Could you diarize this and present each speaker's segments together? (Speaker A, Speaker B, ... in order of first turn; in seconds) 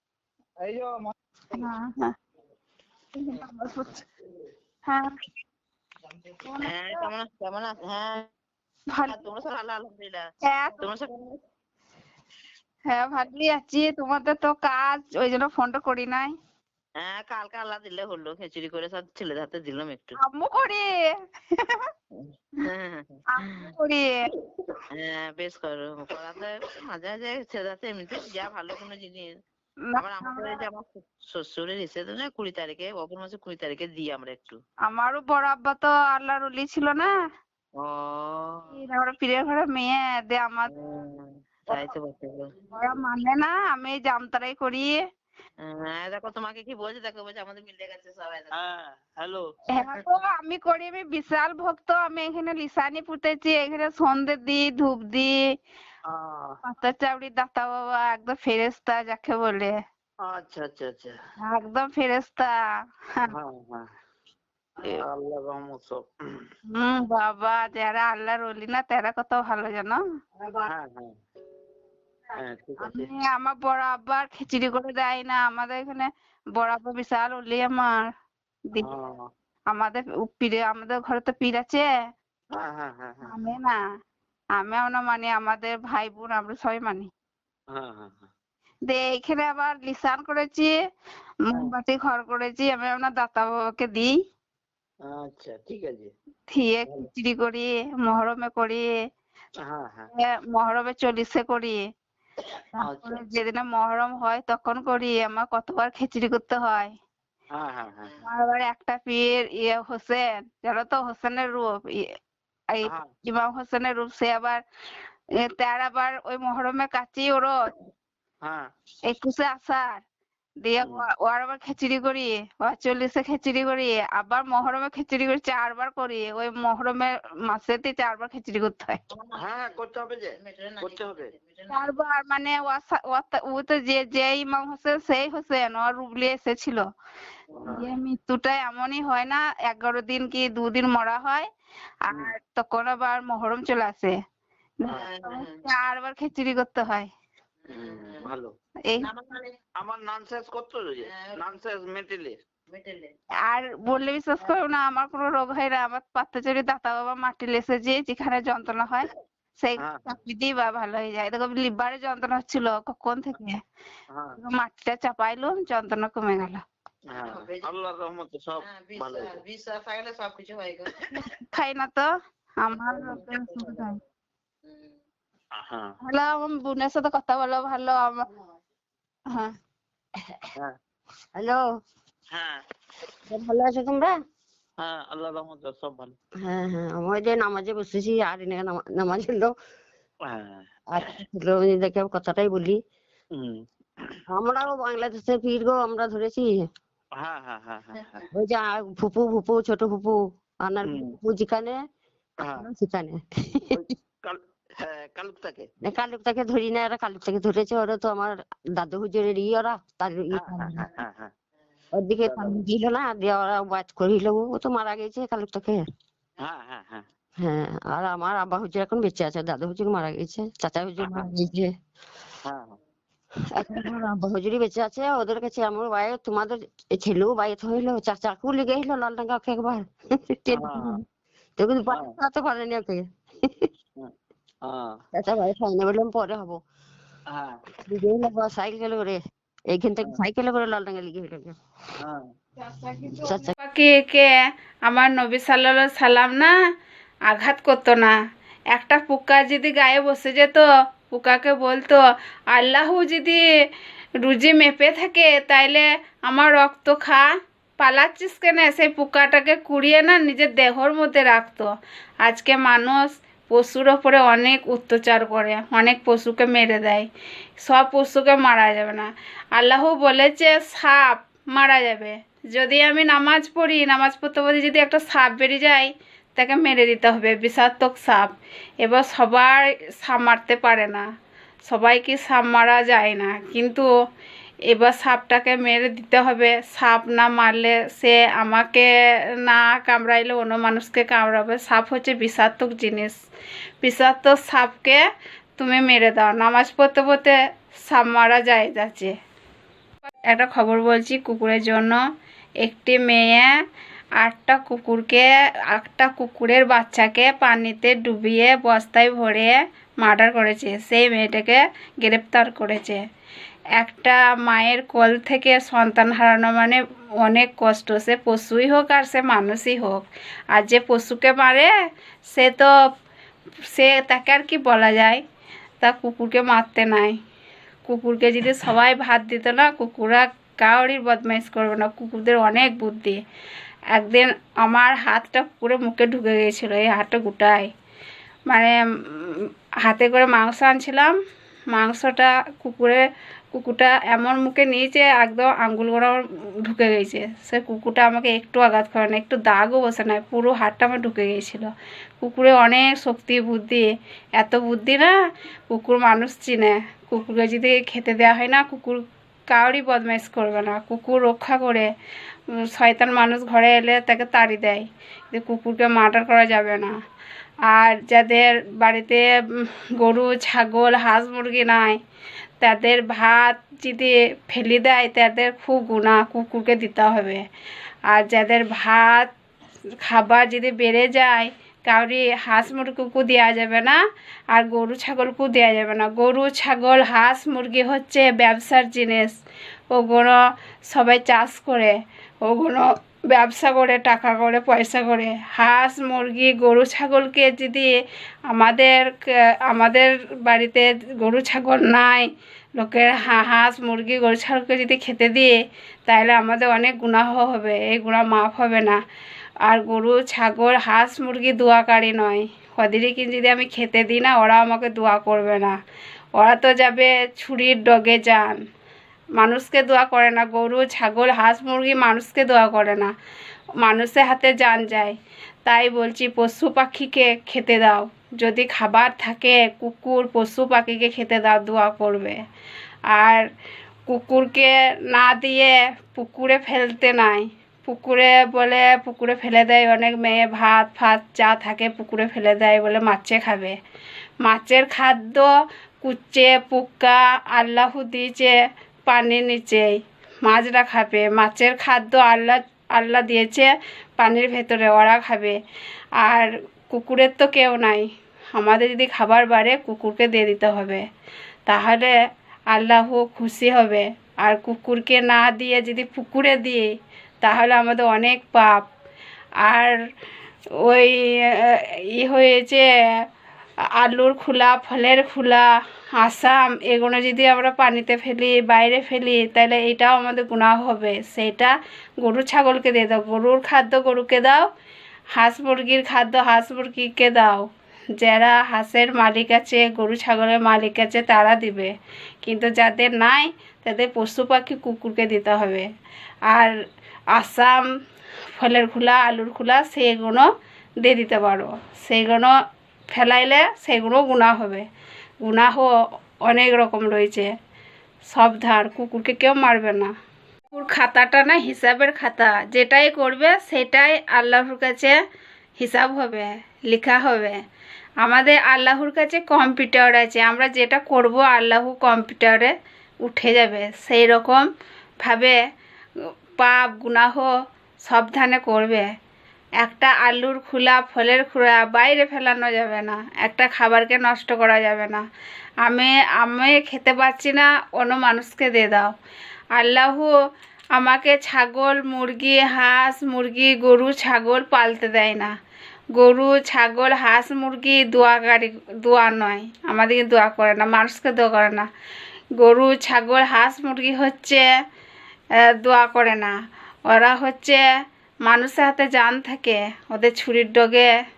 Speaker A: 0.6-1.0, 48.5-49.5, 56.1-56.6, 60.2-61.1, 63.3-63.9, 65.0-66.0, 70.6-71.2, 72.3-73.1, 78.8-79.3, 82.5-83.3, 87.7-88.3, 95.0-96.1, 99.6-100.1, 102.8-103.1, 107.5-108.1, 118.4-118.7, 129.4-131.3, 137.6-137.8, 147.7-148.5, 149.8-152.4, 159.8-160.1, 164.1-164.3, 167.1-169.4, 175.6-175.9, 182.3-182.6, 184.8-186.2, 190.2-190.7, 193.3-194.2, 197.2-198.3, 200.8-201.1, 202.4-202.7, 203.7-205.7, 210.3-211.3, 212.2-212.6, 216.4-217.1, 221.0-221.3, 222.4-222.8, 230.5-231.0, 231.9-232.2, 234.6-234.9, 237.3-237.6
Speaker B: 1.5-2.1, 3.2-4.0, 4.9-5.1, 6.4-7.0, 8.9-9.2, 10.4-10.8, 12.9-16.3, 20.2-20.9, 21.5-21.8, 23.3-24.3, 29.9-30.6, 34.9-37.1, 38.7-40.7, 42.7-45.0, 49.7-55.4, 56.6-59.8, 61.4-62.5, 66.7-70.0, 72.8-78.1, 79.7-81.9, 83.2-83.8, 84.6-87.1, 88.9-90.7, 91.5-94.1, 96.5-98.8, 100.2-101.8, 102.8-106.9, 108.2-112.0, 112.7-114.6, 115.4-117.5, 119.1-120.0, 120.6-129.0, 131.7-136.8, 137.7-141.5, 142.1-144.1, 144.8-147.1, 153.4-159.1, 159.6-163.6, 164.4-166.6, 171.5-172.1, 172.6-174.0, 176.0-178.2, 242.7-244.3, 244.9-246.5, 247.3-248.1, 248.7-252.0, 252.5-253.4, 254.2-257.2, 257.8-261.7, 262.2-267.1, 267.6-281.0, 281.6-283.9, 284.7-288.9, 289.4-293.1, 293.8-295.0, 295.6-297.4, 297.9-299.1, 300.3-302.0, 302.6-303.5, 304.2-313.0, 313.8-320.0, 320.5-321.7, 322.3-322.7, 323.7-325.2, 325.8-327.1, 327.9-333.2, 333.9-337.7, 338.5-341.1, 341.7-343.0, 343.5-351.7, 352.2-355.1, 355.7-361.9, 362.6-366.9, 367.7-372.0, 372.6-377.4, 378.1-379.3, 380.0-384.0, 384.5-389.3, 389.9-390.4, 390.9-397.9, 398.5-399.1, 399.7-405.5, 406.1-409.0, 409.6-415.7, 416.4-418.6, 419.4-423.1, 423.8-432.4, 433.1-433.5, 434.1-443.8, 444.4-445.5, 446.0-448.5, 449.1-455.6, 456.2-461.0, 461.7-462.1, 462.7-466.8, 467.4-468.8, 469.6-469.9, 470.8-472.8, 474.0-484.6, 485.4-487.6, 488.2-491.9, 492.4-495.9, 497.3-497.8, 498.6-500.5, 501.0-502.5, 503.1-504.8, 505.4-505.9, 506.4-507.5, 508.3-510.1, 510.7-515.1, 515.8-517.5, 518.2-522.7, 523.2-524.6, 525.2-525.5, 526.6-527.5, 528.0-529.0, 529.8-535.2, 535.8-539.1, 539.8-540.3, 540.9-545.5, 546.1-551.9, 552.6-554.6, 555.8-556.5, 557.1-557.8, 558.5-561.1
Speaker C: 6.6-8.3, 9.1-10.2, 10.8-11.4, 17.0-20.2, 22.1-23.7, 24.9-29.4, 30.0-34.6, 37.8-38.7, 40.7-42.5, 45.6-48.5, 129.1-129.7, 130.4-131.8, 144.9-145.6, 147.6-148.3, 149.0-149.5, 151.0-151.6, 152.7-153.1, 167.2-167.7, 168.6-171.3, 172.8-173.8
Speaker D: 70.4-70.7, 181.3-181.6, 183.3-184.1, 186.4-189.5, 190.9-192.8, 194.3-196.6, 198.3-201.8, 202.5-203.8, 205.8-210.9, 211.9-215.8, 217.4-221.7, 223.5-231.0, 231.6-233.7, 235.1-236.6, 237.8-239.2, 239.7-241.5, 243.1-243.5